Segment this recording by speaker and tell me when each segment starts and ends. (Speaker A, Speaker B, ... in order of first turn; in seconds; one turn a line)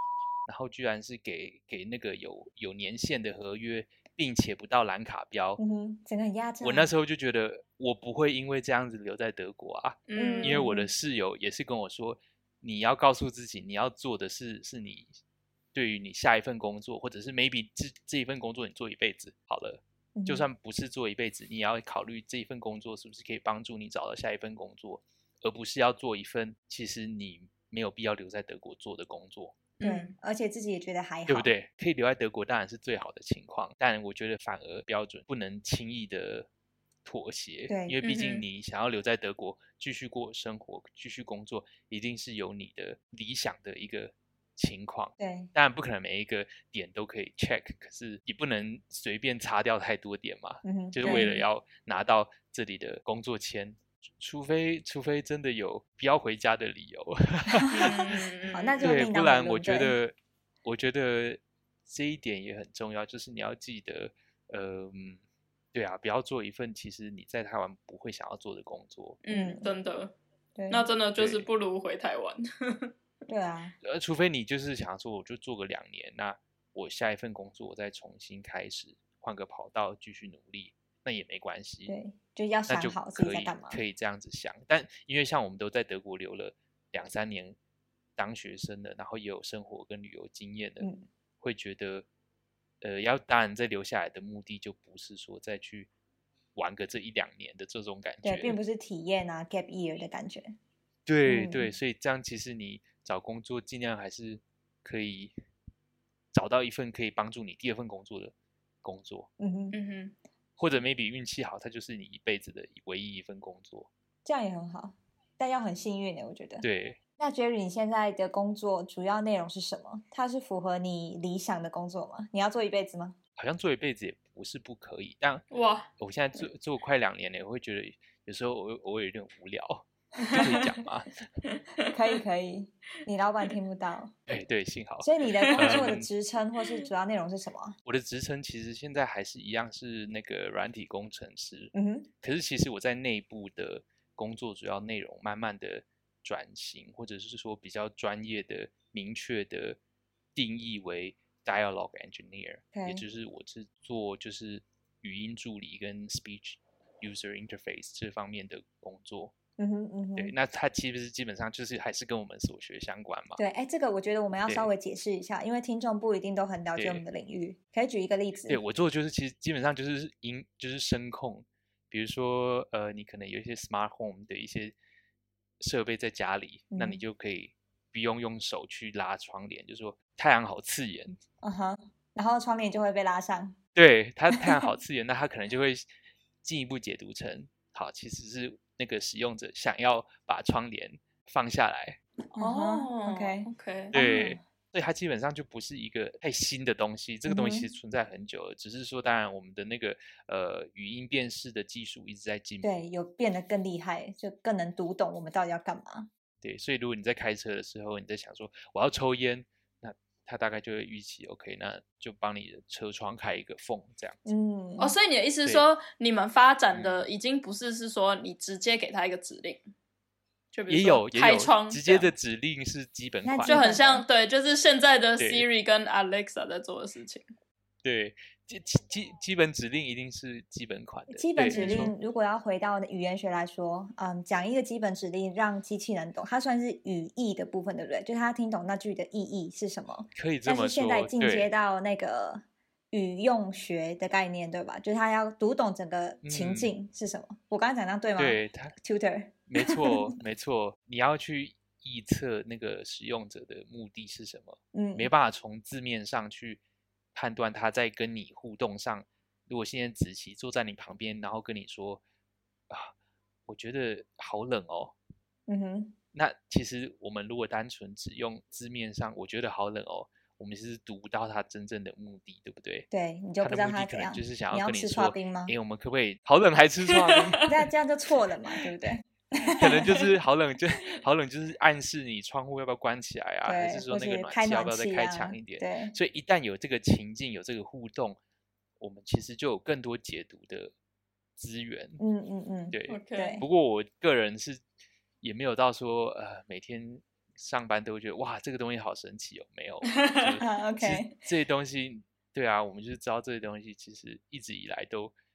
Speaker A: 0.5-5.6
Speaker B: 5.6-6.9
Speaker A: 6.6-15.1
Speaker C: 10.1-10.6
Speaker B: 10.2-10.9
Speaker A: 15.7-29.7
Speaker B: 20.1-20.4
Speaker C: 29.8-30.1
Speaker B: 29.8-31.5
Speaker A: 31.3-36.5
Speaker A: 37.0-58.1
Speaker B: 37.7-38.0
Speaker C: 38.0-38.4
Speaker B: 45.2-45.5
Speaker B: 50.6-51.3
Speaker C: 51.0-51.4
Speaker B: 57.6-60.0
Speaker C: 57.7-58.9
Speaker A: 58.8-60.1
Speaker A: 60.6-65.2
Speaker A: 65.7-69.2
Speaker C: 69.2-70.1
Speaker B: 69.3-69.7
Speaker B: 70.5-70.9
Speaker C: 70.7-72.9
Speaker A: 71.2-71.5
Speaker B: 73.3-73.8
Speaker A: 73.8-81.9
Speaker B: 81.9-83.8
Speaker A: 82.7-87.5
Speaker A: 88.2-90.8
Speaker B: 90.8-91.0
Speaker A: 91.4-92.0
Speaker A: 92.8-95.9
Speaker A: 96.5-98.6
Speaker B: 98.2-100.5
Speaker A: 101.0-105.3
Speaker B: 101.2-101.7
Speaker A: 106.3-109.3
Speaker B: 109.4-109.8
Speaker C: 109.7-110.1
Speaker A: 110.6-113.9
Speaker B: 114.2-116.7
Speaker A: 116.6-117.0
Speaker B: 117.2-123.2
Speaker A: 123.4-125.4
Speaker C: 125.5-125.9
Speaker A: 126.0-131.1
Speaker C: 130.3-130.5
Speaker B: 130.3-130.7
Speaker B: 131.9-134.2
Speaker A: 134.3-136.1
Speaker B: 135.0-137.8
Speaker C: 135.5-135.9
Speaker A: 137.8-149.8
Speaker B: 141.7-142.1
Speaker A: 150.3-159.3
Speaker B: 152.7-153.0
Speaker B: 159.6-160.3
Speaker A: 160.2-163.4
Speaker B: 163.4-168.6
Speaker A: 164.4-164.7
Speaker A: 166.8-167.0
Speaker A: 168.5-174.7
Speaker A: 175.6-181.2
Speaker B: 176.7-177.0
Speaker B: 181.4-183.6
Speaker A: 183.7-185.9
Speaker B: 184.3-184.7
Speaker A: 186.4-192.0
Speaker B: 192.3-194.4
Speaker C: 192.3-193.9
Speaker A: 193.9-202.7
Speaker B: 197.3-197.7
Speaker B: 202.6-206.1
Speaker A: 206.4-214.2
Speaker B: 214.2-214.9
Speaker C: 214.8-219.7
Speaker A: 216.7-217.1
Speaker C: 220.5-222.1
Speaker A: 220.7-223.6
Speaker B: 223.2-224.0
Speaker C: 223.5-227.3
Speaker A: 225.2-225.4
Speaker A: 227.8-231.9
Speaker B: 231.1-250.1
Speaker C: 231.5-231.9
Speaker A: 240.1-241.5
Speaker A: 246.2-246.7
Speaker A: 248.2-248.7
Speaker A: 249.5-256.6
Speaker B: 254.7-255.1
Speaker A: 257.1-262.0
Speaker A: 263.5-264.9
Speaker B: 265.5-265.9
Speaker A: 266.1-272.9
Speaker B: 272.9-275.5
Speaker A: 273.4-277.5
Speaker B: 277.4-280.1
Speaker A: 279.4-288.2
Speaker B: 283.4-285.9
Speaker A: 288.8-290.7
Speaker A: 291.4-292.0
Speaker B: 292.0-293.4
Speaker A: 292.7-294.6
Speaker C: 292.9-293.4
Speaker A: 295.2-305.1
Speaker C: 299.9-300.4
Speaker B: 300.4-301.2